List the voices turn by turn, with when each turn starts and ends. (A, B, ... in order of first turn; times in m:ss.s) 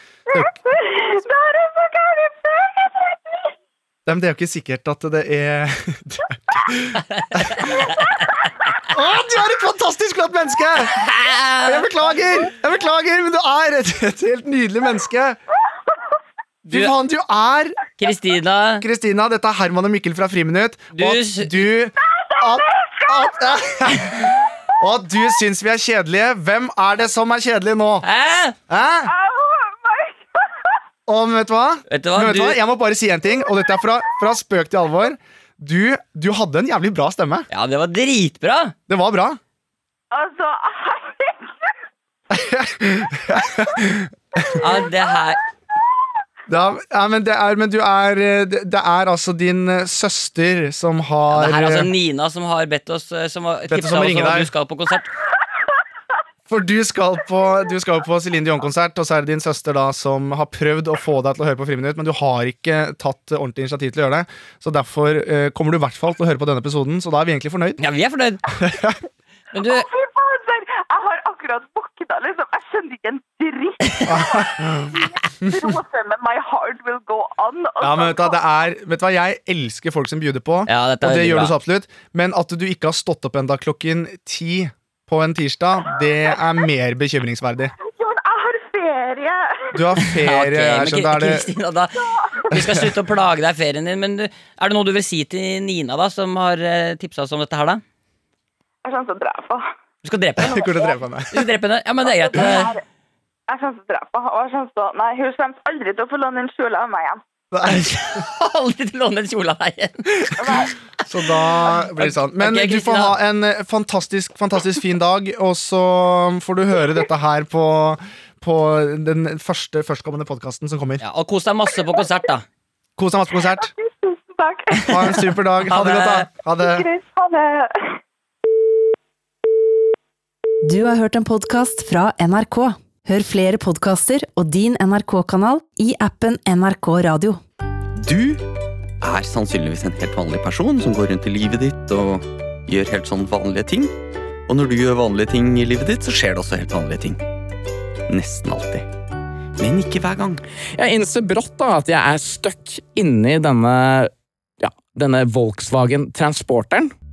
0:00.3-0:03.5 A
0:04.0-0:07.7 B
0:07.2-0:07.8 C
0:08.9-0:11.0 B
0:10.9-0:11.9 C
0:11.6-0:15.4 B
0:16.6-0:17.8 B
0:18.0-0:18.8 C
0:18.8-0:28.0 B
0:20.9-0:21.6 C
0:22.0-0:23.5 A
0:28.0-0:28.6 C
0:28.7-0:29.1 B
0:29.0-0:30.7 A
0:31.1-0:37.5 B
0:31.9-0:32.6 C
0:37.5-0:38.7 C
0:38.9-0:39.4 B
0:40.1-0:41.7 A
0:42.3-0:44.5 B
0:44.6-0:45.4 C
0:46.5-0:51.9 B
0:51.3-0:55.1 C
0:53.7-0:54.5 B
0:56.5-1:07.8 B
1:07.8-1:08.7 C
1:08.5-1:09.0 B
1:09.5-1:09.9 C
1:09.6-1:18.4 A
1:14.0-1:15.8 B
1:17.8-1:27.7 B
1:20.7-1:21.5 C
1:27.8-1:29.8 A
1:29.7-1:31.5 B
1:30.0-1:37.8 C
1:32.0-1:32.5 A
1:32.5-1:32.9 B
1:38.8-1:39.7 A
1:40.0-1:40.7 C
1:40.4-1:41.4 B
1:41.3-1:42.7 C
1:42.1-1:42.8 A
1:43.5-1:47.2 A
1:47.5-1:48.2 B
1:47.7-1:50.4 C
1:50.4-1:50.7 A
1:51.1-2:01.0 B
1:51.7-1:53.2 C
2:01.0-2:02.4 C
2:03.0-2:03.7 B
2:03.5-2:05.2 A
2:04.7-2:05.2 C
2:04.9-2:06.9 B
2:05.7-2:06.3 C
2:06.6-2:08.0 A
2:10.6-2:17.4 D
2:18.0-2:18.4 E
2:19.0-2:23.9 E
2:24.5-2:27.2 E
2:28.1-2:28.9 E
2:29.6-2:30.4 E
2:30.8-2:36.9 F